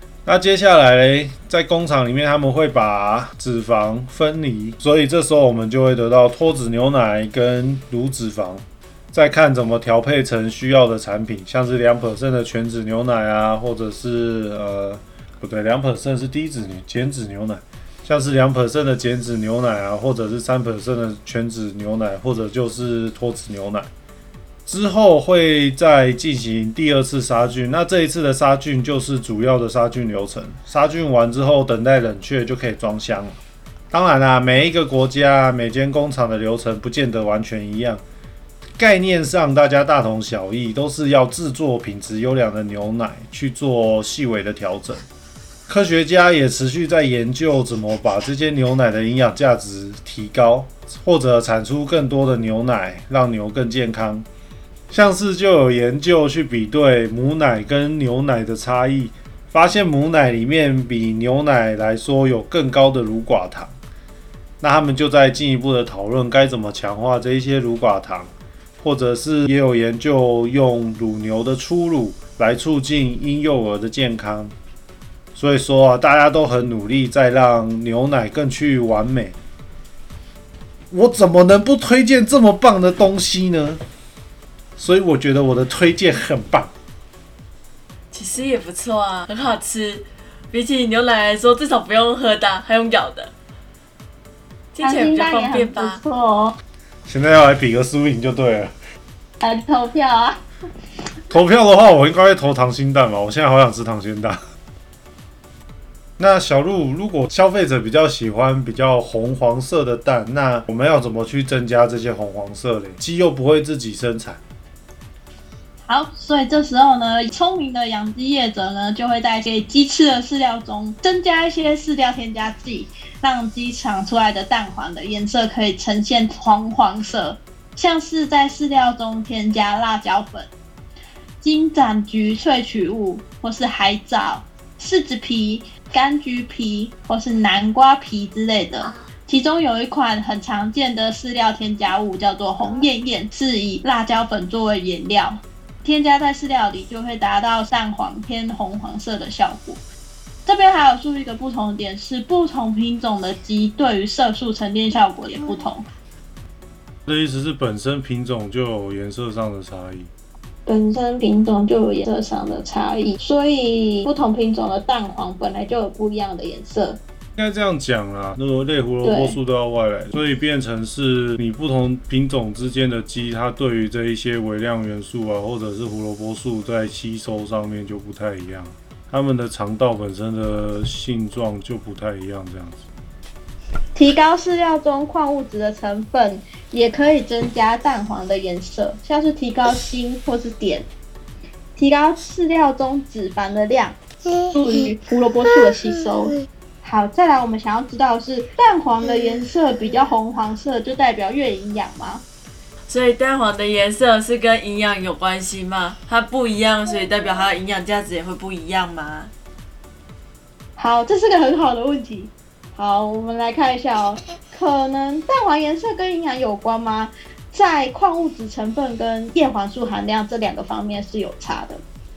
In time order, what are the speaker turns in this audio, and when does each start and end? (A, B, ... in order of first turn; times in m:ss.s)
0:00.2-0:23.9 A
0:24.7-0:33.4 A
0:33.9-0:38.0 A
0:38.8-0:45.1 A
0:45.7-0:54.3 A
0:54.9-1:03.7 A
1:04.6-1:14.5 A
1:15.4-1:19.4 A
1:20.9-1:23.8 A
1:24.8-1:26.7 A
1:28.1-1:33.3 B
1:34.7-1:36.0 B
1:34.8-1:36.6 C
1:37.1-1:38.7 A
1:39.4-1:40.4 C
1:41.3-1:44.4 A
1:46.2-1:54.4 A
1:55.9-2:10.5 C
2:11.4-2:29.8 C
2:30.5-2:35.9 C
2:37.1-2:40.1 A
2:40.7-2:47.0 C
2:47.4-3:02.8 A
2:49.0-2:49.4 C
3:04.0-3:10.9 C
3:11.8-3:22.2 C
3:22.9-3:29.3 B
3:30.8-3:41.8 C